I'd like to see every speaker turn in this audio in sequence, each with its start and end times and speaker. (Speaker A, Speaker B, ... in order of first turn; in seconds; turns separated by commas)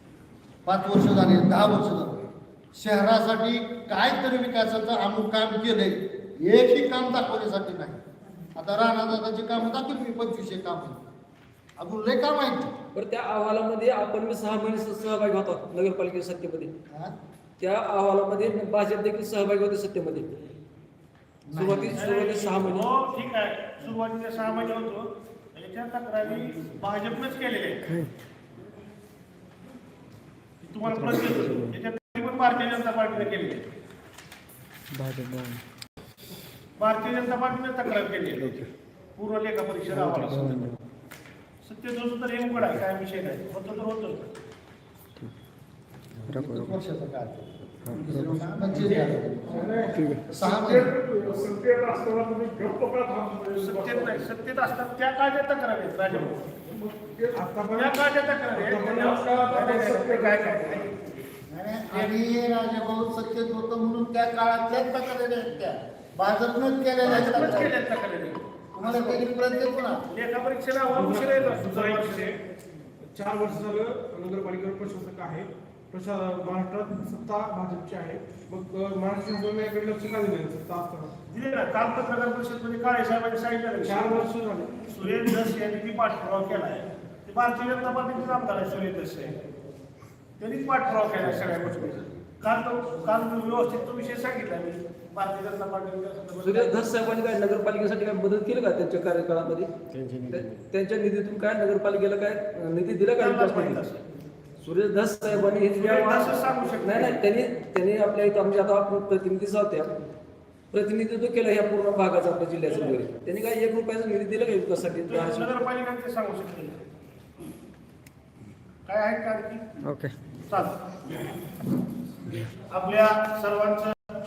Speaker A: 0.6-8.0, Speaker A: 8.6-11.1, Speaker A: 11.8-12.7, Speaker B: 12.9-16.7, Speaker A: 16.9-17.2, Speaker B: 17.6-20.4, Speaker A: 21.5-22.0, Speaker B: 21.5-22.9, Speaker C: 22.0-27.8, Speaker D: 27.9-28.1, Speaker C: 30.6-33.6, Speaker D: 30.9-31.8, Speaker D: 34.9-35.6, Speaker C: 36.8-40.7, Speaker D: 39.9-40.8, Speaker C: 41.6-44.3, Speaker A: 46.2-49.7, Speaker D: 46.3-46.8, Speaker D: 47.9-48.7, Speaker E: 49.5-54.3, Speaker A: 50.3-50.9, Speaker C: 53.5-56.5, Speaker E: 56.6-60.9, Speaker C: 57.7-60.9, Speaker A: 61.5-67.8, Speaker C: 67.0-69.2, Speaker A: 68.8-70.0, Speaker C: 70.1-72.4, Speaker E: 70.9-72.4, Speaker E: 73.0-81.1, Speaker C: 81.3-84.3, Speaker E: 83.8-85.4, Speaker C: 84.9-89.4, Speaker C: 90.4-97.2, Speaker B: 96.4-99.7, Speaker A: 99.9-100.4, Speaker B: 100.3-103.8, Speaker C: 103.2-104.0, Speaker B: 104.6-109.9, Speaker C: 105.6-107.2, Speaker B: 110.7-115.5, Speaker C: 112.7-113.0, Speaker C: 115.1-116.8, Speaker C: 118.9-119.7, Speaker D: 119.8-120.1, Speaker C: 120.5-120.8, Speaker C: 122.7-124.0